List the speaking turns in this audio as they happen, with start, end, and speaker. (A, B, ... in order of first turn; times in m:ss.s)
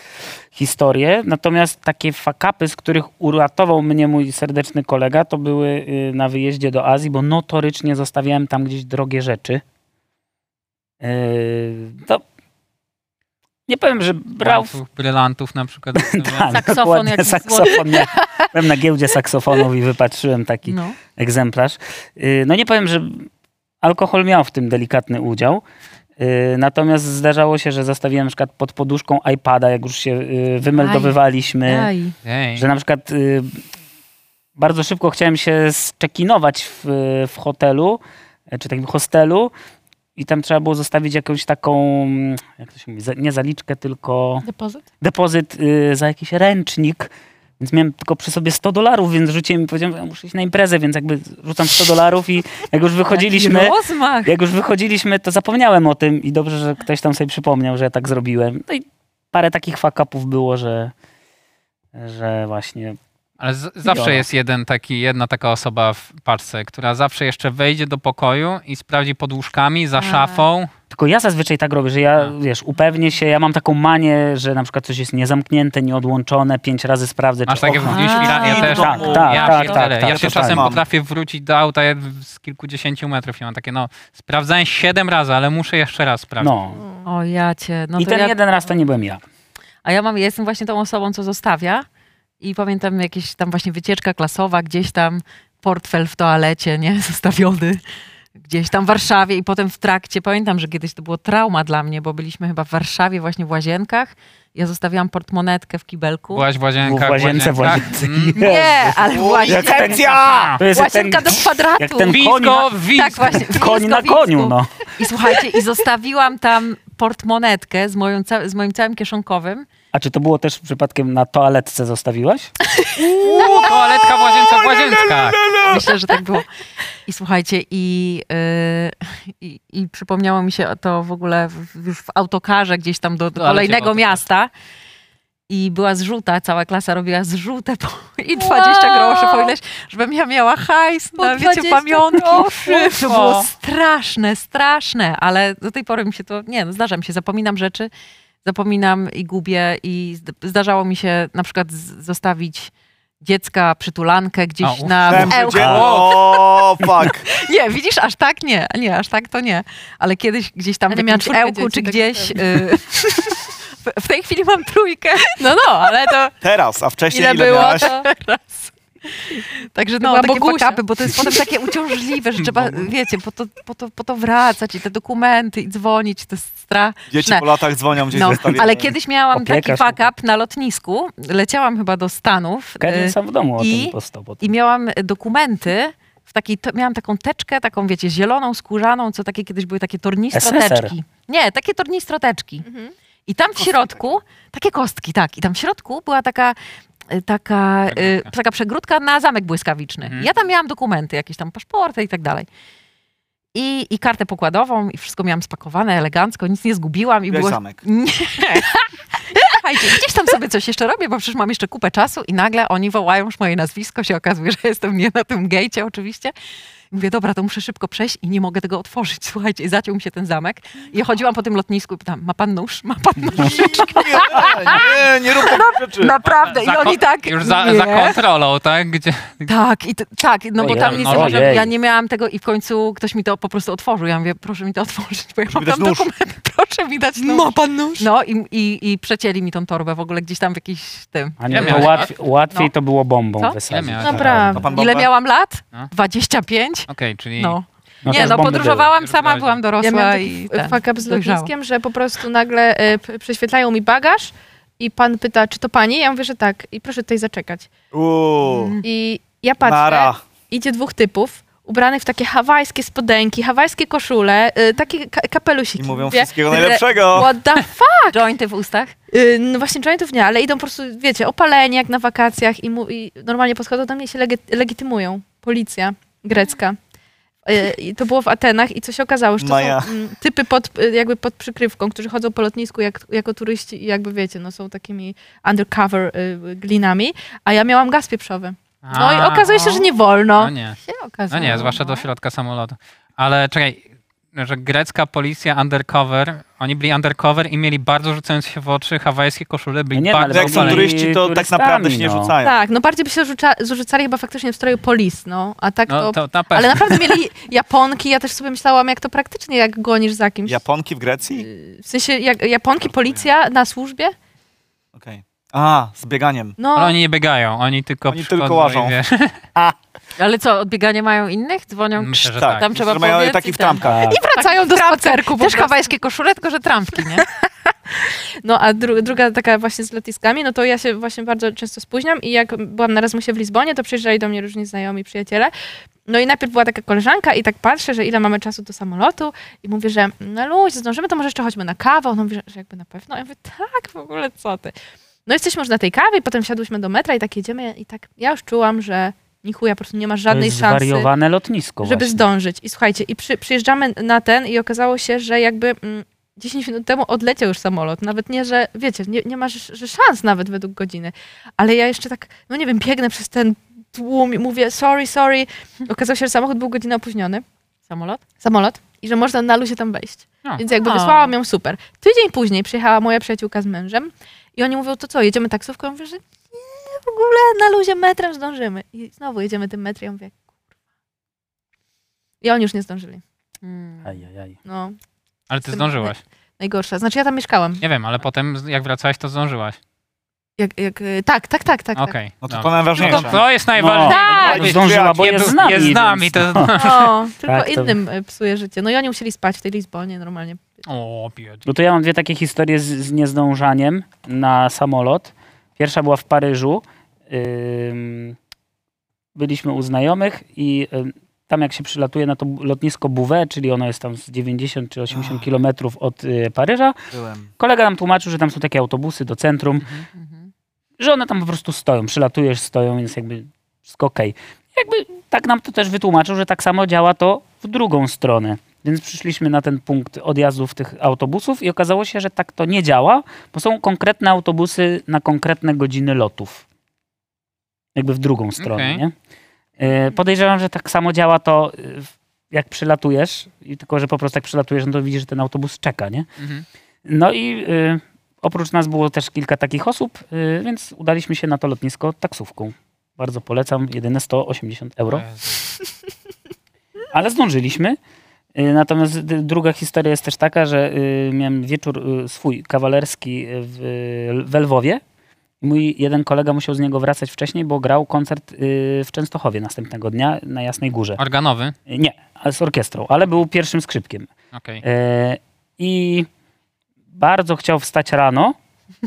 0:00.5-0:09.6 A
0:11.0-0:12.2 A
0:13.7-0:14.8 A
0:14.4-0:16.6 B
0:16.0-0:23.3 A
0:16.5-0:18.5 C
0:20.7-0:21.0 C
0:23.8-0:25.6 A
0:26.2-0:31.9 A
0:30.8-0:32.2 C
0:32.2-0:32.7 B
0:32.6-0:33.6 A
0:34.6-0:39.5 A
0:40.2-0:44.4 A
0:44.4-0:44.8 D
0:45.0-1:00.9 A
0:53.1-0:54.3 C
1:01.9-1:03.0 A
1:03.4-1:10.7 B
1:03.8-1:04.3 A
1:10.0-1:10.4 C
1:10.9-1:20.7 A
1:17.5-1:26.5 B
1:17.7-1:20.8 E
1:17.9-1:19.8 C
1:26.4-1:26.8 A
1:26.7-1:27.1 D
1:27.0-1:28.4 C
1:28.0-1:29.2 A
1:29.8-1:31.9 C
1:32.4-1:37.8 C
1:38.4-1:46.5 C
1:46.3-1:48.4 B
1:46.8-1:52.7 A
1:48.4-1:50.2 C
1:49.1-1:50.6 E
1:50.2-1:50.6 B
1:50.8-1:52.0 D
1:50.9-1:59.7 C
1:52.1-1:53.5 B
1:53.3-1:54.8 A
1:59.9-2:02.5 A
2:03.1-2:05.5 B
2:03.2-2:03.8 E
2:04.4-2:05.9 E
2:05.6-2:06.5 C
2:07.1-2:14.5 C
2:13.4-2:14.2 B
2:15.5-2:27.9 C
2:18.4-2:19.5 D
2:21.2-2:23.2 D
2:23.0-2:23.4 B
2:28.4-2:45.4 C
2:34.6-2:36.0 B
2:35.1-2:37.3 E
2:35.6-2:35.9 A
2:40.9-2:43.4 D
2:45.4-2:46.3 D
2:46.4-2:47.9 E
2:47.1-2:48.1 D
2:47.5-2:57.5 C
2:50.0-2:51.3 D
2:52.4-2:52.8 B
2:57.1-2:58.9 E
2:58.1-3:12.6 C
2:58.2-3:00.1 A
3:02.8-3:04.5 A
3:10.3-3:10.9 A
3:12.6-3:12.9 D
3:13.3-3:16.6 C
3:13.6-3:14.2 E
3:17.1-3:22.5 C
3:17.9-3:18.3 B
3:23.5-3:36.3 C
3:27.3-3:27.8 E
3:36.9-3:48.2 C
3:43.3-3:46.2 E
3:46.2-3:49.5 B
3:49.5-4:02.6 C
3:50.6-3:51.7 A
3:50.6-3:51.6 B
3:55.5-3:56.1 E
3:57.2-3:58.1 D
4:01.4-4:04.6 A
4:01.5-4:02.1 B
4:03.7-4:04.2 B
4:04.0-4:04.7 D
4:04.0-4:05.1 E
4:04.6-4:11.5 C
4:06.9-4:07.6 B
4:08.0-4:08.9 A
4:08.2-4:09.6 B
4:09.8-4:17.7 D
4:17.9-4:18.8 E
4:18.4-4:18.8 C
4:18.8-4:28.2 D
4:19.6-4:20.2 E
4:25.8-4:27.3 E
4:28.1-4:28.9 C
4:29.1-4:36.8 D
4:37.5-4:50.5 D
4:39.4-4:39.9 E
4:48.8-4:49.6 B
4:50.4-4:50.8 B
4:50.8-4:52.1 C
4:51.3-5:00.9 B
4:59.9-5:02.3 A
5:00.3-5:02.6 E
5:02.4-5:10.6 D
5:05.9-5:07.1 B
5:10.5-5:11.5 E
5:11.3-5:14.1 D
5:12.8-5:13.2 E
5:15.0-5:16.6 E
5:16.6-5:17.0 D
5:16.8-5:19.4 B
5:18.1-5:19.0 E
5:20.2-5:27.3 C
5:22.0-5:22.7 B
5:22.4-5:24.2 E
5:23.8-5:24.2 A
5:24.1-5:25.9 D
5:28.1-5:35.5 D
5:36.1-5:44.7 D
5:45.3-5:51.1 D
5:50.3-5:52.3 A
5:51.8-6:07.4 D
6:07.9-6:08.2 C
6:08.4-6:20.4 D
6:10.7-6:11.4 C
6:22.4-6:23.2 D
6:23.6-6:24.2 C
6:24.0-6:24.6 A
6:24.6-6:25.0 D
6:25.5-6:26.2 B
6:25.6-6:27.8 D
6:27.8-6:29.8 B
6:30.6-6:32.2 D
6:32.0-6:37.1 B
6:32.4-6:33.4 E
6:33.0-6:36.8 A
6:34.1-6:34.6 D
6:34.1-6:35.6 E
6:36.7-6:40.6 D
6:37.5-6:38.0 A
6:40.9-6:41.6 B
6:41.6-6:48.4 A
6:49.4-6:57.0 A
6:55.1-6:55.4 E
6:57.1-6:57.5 E
6:57.6-7:00.0 A
7:00.2-7:00.5 C
7:01.0-7:16.6 A
7:18.0-7:19.1 A
7:18.6-7:19.0 B
7:19.8-7:26.3 A
7:26.4-7:26.7 B
7:27.0-7:35.2 A
7:35.1-7:35.6 B
7:37.1-7:38.0 A
7:38.6-7:45.0 A
7:45.6-7:51.2 A
7:51.2-7:51.8 B
7:51.9-7:54.3 A
7:54.5-7:54.8 B
7:54.8-7:56.3 A
7:57.1-7:58.6 A